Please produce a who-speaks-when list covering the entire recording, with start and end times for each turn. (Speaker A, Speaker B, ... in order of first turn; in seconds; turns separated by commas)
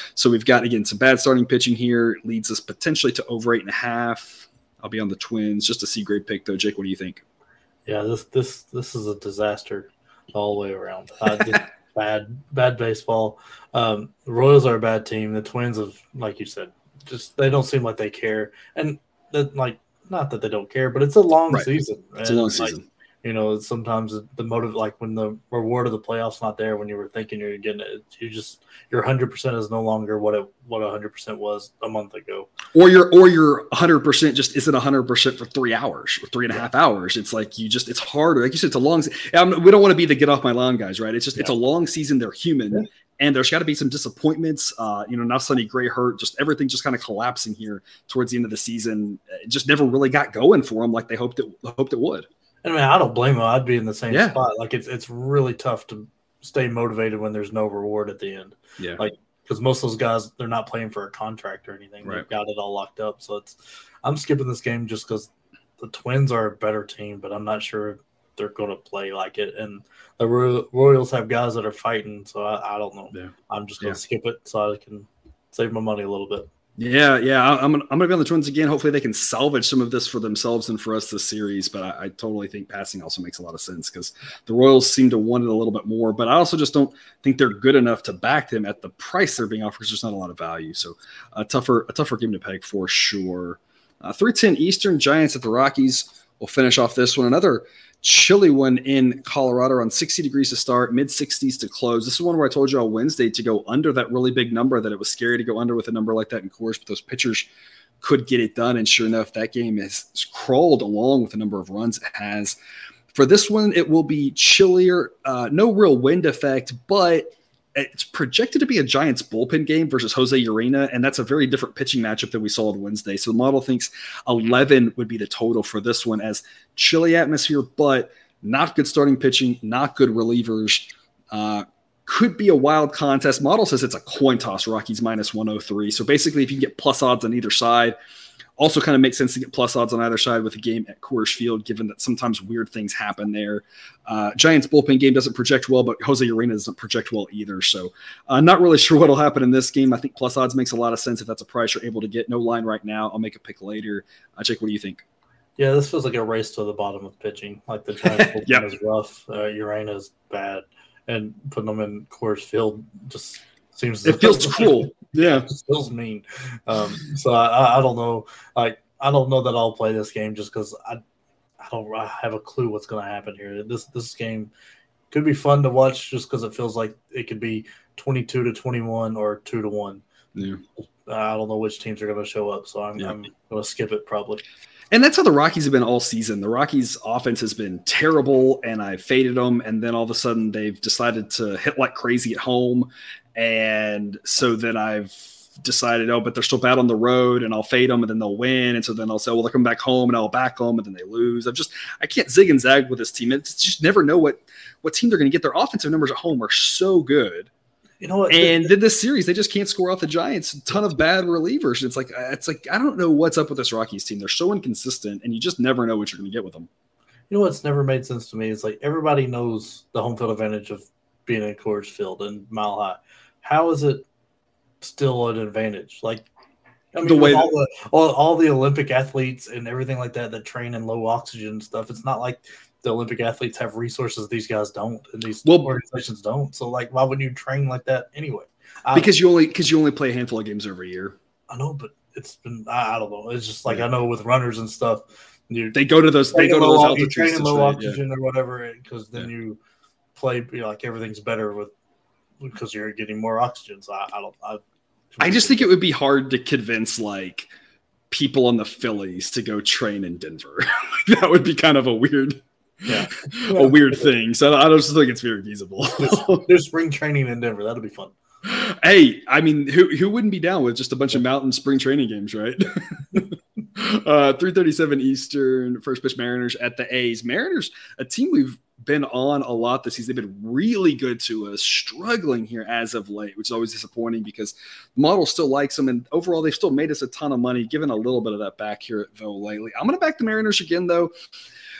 Speaker A: 0.1-7.2, Speaker B: 7.8-32.5, Speaker A: 22.2-22.8, Speaker A: 32.7-52.3, Speaker B: 52.6-76.5, Speaker A: 54.1-54.4, Speaker A: 73.1-74.0, Speaker A: 76.8-107.5, Speaker A: 108.0-112.6, Speaker A: 113.1-137.9, Speaker A: 138.6-155.0, Speaker B: 155.6-171.0, Speaker A: 158.1-158.7, Speaker A: 164.1-165.5, Speaker B: 171.6-174.5, Speaker B: 175.1-180.0, Speaker A: 180.3-180.6, Speaker B: 181.1-184.4, Speaker A: 184.9-207.5, Speaker B: 208.0-208.7, Speaker A: 208.3-216.7, Speaker B: 217.3-224.0, Speaker B: 224.8-226.2, Speaker B: 226.9-239.1, Speaker A: 227.0-227.5, Speaker A: 235.4-235.7, Speaker A: 238.9-241.2, Speaker B: 241.5-245.8, Speaker A: 245.7-248.0, Speaker B: 246.3-249.6, Speaker B: 250.1-251.7, Speaker B: 252.4-254.6, Speaker B: 255.1-255.7, Speaker A: 255.2-257.5, Speaker A: 258.1-266.5, Speaker B: 262.9-264.0, Speaker B: 266.0-268.1, Speaker A: 268.4-291.1